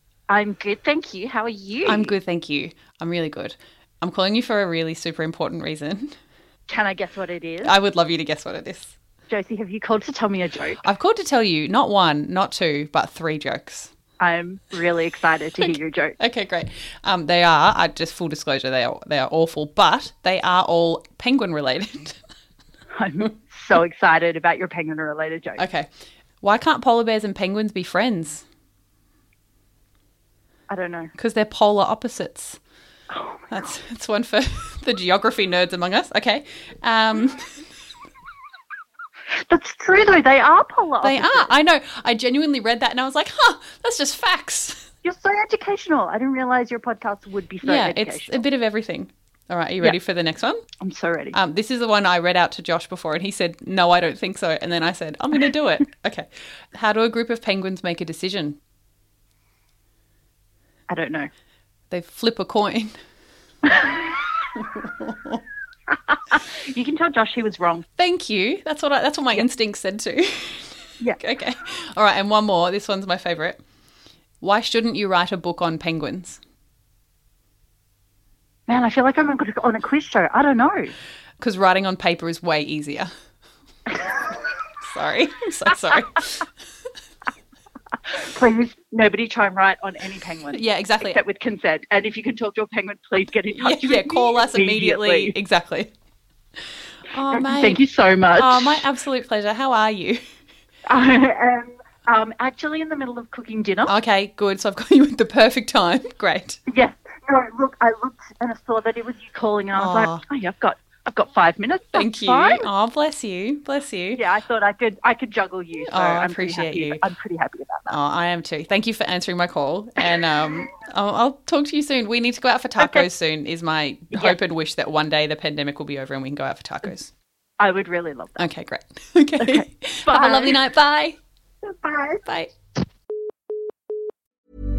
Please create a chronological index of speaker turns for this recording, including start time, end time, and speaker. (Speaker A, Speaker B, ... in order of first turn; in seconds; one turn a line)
Speaker A: 0.3-2.1
Speaker B: 1.9-6.2
Speaker A: 6.7-7.7
Speaker B: 7.6-8.9
Speaker A: 9.3-10.8
Speaker B: 10.8-13.9
Speaker A: 14.2-16.2
Speaker B: 15.6-22.2
Speaker A: 22.9-25.6
Speaker B: 25.6-25.9
Speaker B: 26.4-28.4
Speaker A: 30.7-31.1
Speaker B: 31.2-32.6
Speaker A: 33.1-33.6
Speaker B: 33.5-37.5
Speaker A: 39.4-41.5
Speaker B: 41.0-44.9
Speaker A: 45.0-48.4
Speaker B: 47.6-50.6
Speaker A: 50.8-51.4
Speaker B: 51.3-58.6
Speaker A: 60.9-61.3
Speaker B: 61.9-62.9
Speaker A: 63.6-64.5
Speaker B: 64.6-65.4
Speaker A: 65.9-67.8
Speaker B: 68.0-73.6
Speaker B: 74.4-76.4
Speaker A: 78.7-80.9
Speaker B: 81.4-83.1
Speaker A: 83.9-84.6
Speaker B: 84.8-86.5
Speaker A: 88.0-95.3
Speaker B: 90.5-91.2
Speaker B: 93.5-95.9
Speaker B: 97.1-97.8
Speaker A: 97.3-98.9
Speaker B: 98.4-100.2
Speaker A: 100.9-103.9
Speaker B: 103.9-106.6
Speaker A: 106.7-112.7
Speaker B: 109.8-110.2
Speaker B: 112.0-114.2
Speaker A: 114.2-118.0
Speaker B: 115.9-117.0
Speaker B: 117.9-127.1
Speaker A: 122.8-123.1
Speaker A: 124.1-124.4
Speaker A: 127.6-128.5
Speaker B: 128.4-131.2
Speaker A: 129.4-130.6
Speaker A: 131.7-132.2
Speaker B: 132.2-132.5